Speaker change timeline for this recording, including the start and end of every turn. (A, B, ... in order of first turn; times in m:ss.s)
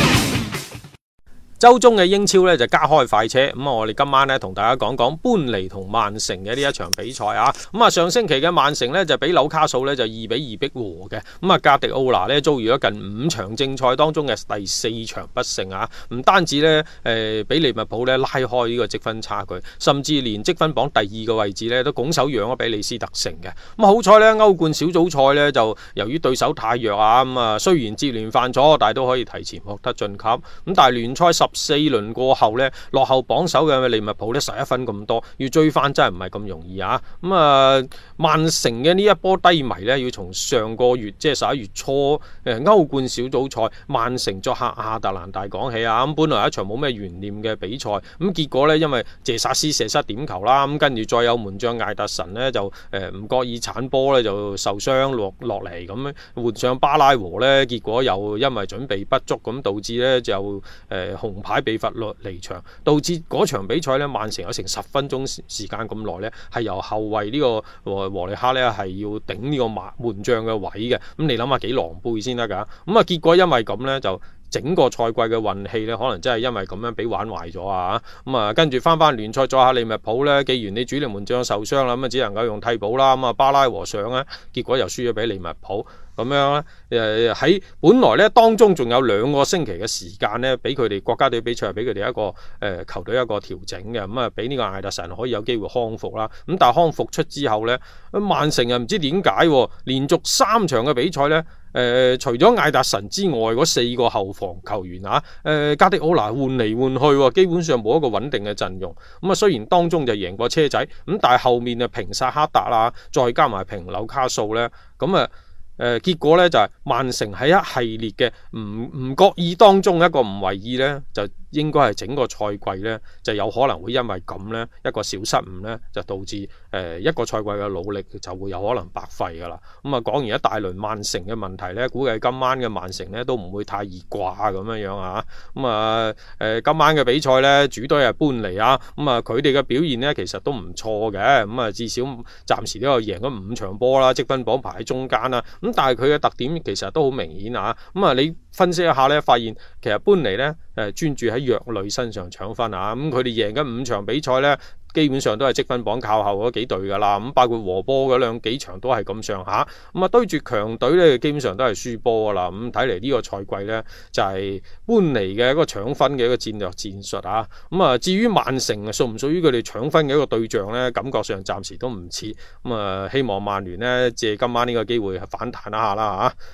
0:01.6-2:56.3 A